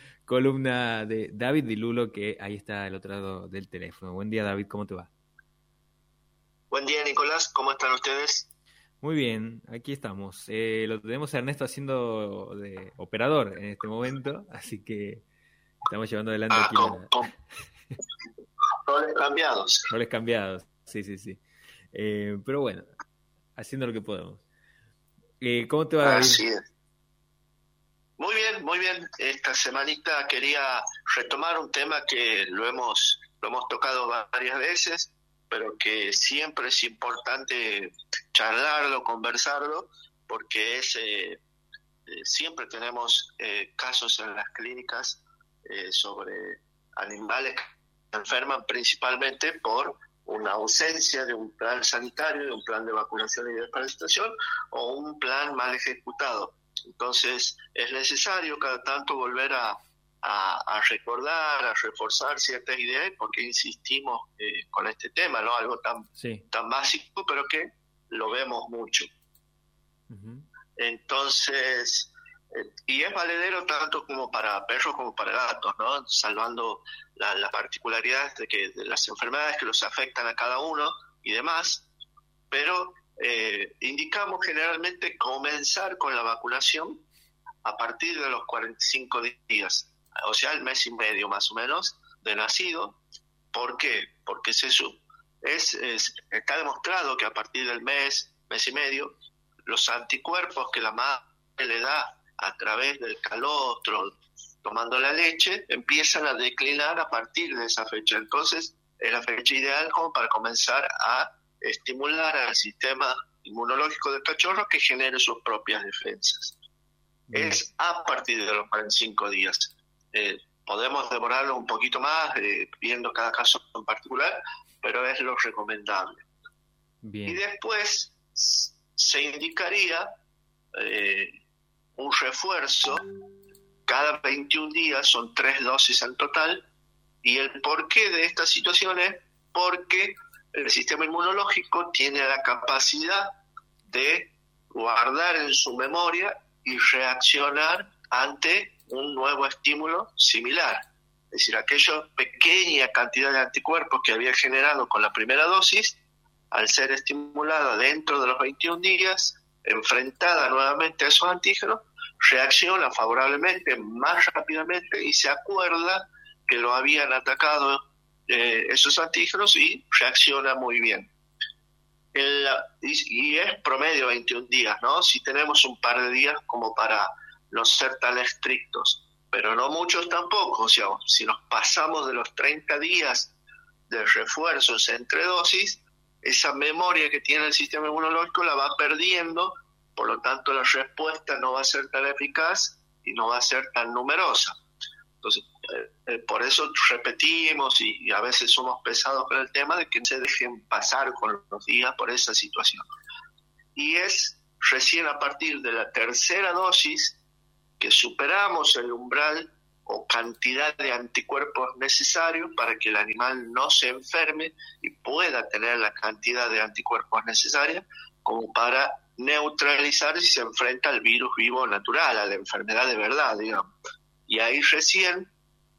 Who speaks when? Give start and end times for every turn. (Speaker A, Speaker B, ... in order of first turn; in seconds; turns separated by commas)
Speaker A: 0.2-5.1, Speaker B: 6.7-8.5, Speaker A: 9.0-15.2, Speaker A: 15.9-17.1, Speaker B: 16.5-17.3, Speaker B: 18.9-19.9, Speaker A: 19.9-21.4, Speaker A: 21.9-22.9, Speaker A: 23.6-24.4, Speaker A: 25.4-26.4, Speaker B: 26.0-26.6, Speaker B: 28.2-41.4, Speaker B: 42.1-69.1, Speaker A: 66.2-66.5, Speaker A: 70.1-70.5, Speaker B: 70.8-81.9, Speaker B: 82.5-87.0, Speaker B: 87.6-93.0, Speaker B: 93.5-99.2, Speaker B: 99.7-116.5, Speaker A: 117.3-117.6, Speaker B: 117.3-126.2, Speaker A: 127.0-127.4, Speaker B: 127.3-130.1, Speaker B: 130.8-131.3, Speaker B: 132.0-133.0, Speaker B: 133.9-136.7, Speaker B: 137.2-143.3, Speaker B: 143.9-150.8, Speaker B: 151.3-156.0, Speaker B: 156.5-171.1, Speaker B: 172.1-183.3, Speaker B: 183.9-194.6, Speaker B: 195.2-202.8, Speaker B: 203.8-207.2, Speaker B: 207.8-223.7, Speaker B: 224.3-225.3